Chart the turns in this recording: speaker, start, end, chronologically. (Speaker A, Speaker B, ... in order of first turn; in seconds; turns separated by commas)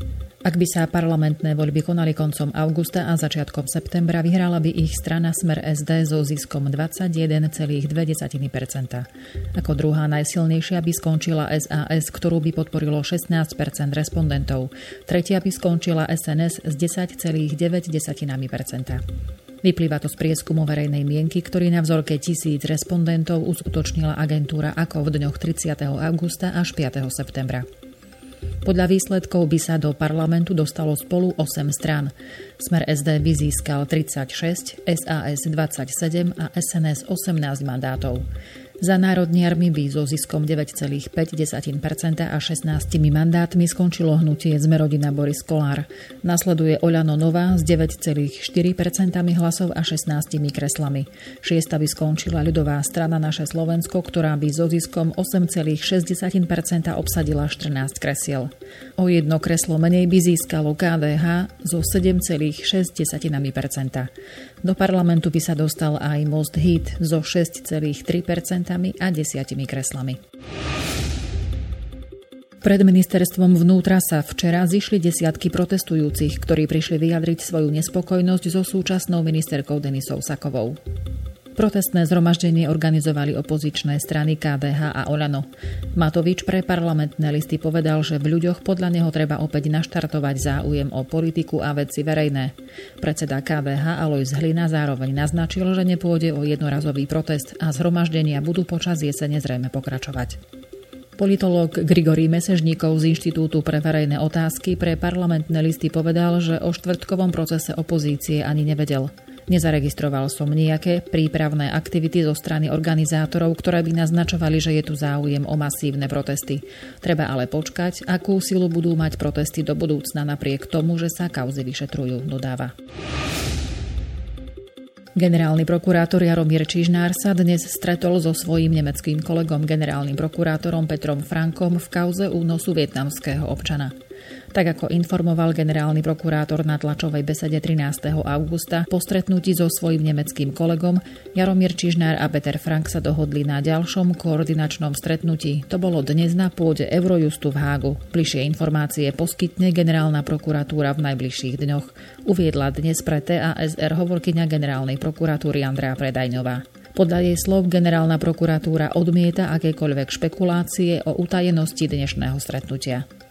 Speaker A: 0.4-19.0, Speaker A: 19.6-27.7, Speaker A: 28.6-38.3, Speaker A: 38.8-64.1, Speaker A: 64.6-70.2, Speaker A: 72.6-80.8, Speaker A: 81.5-100.4, Speaker A: 101.2-122.7, Speaker A: 125.2-133.9, Speaker A: 134.5-163.1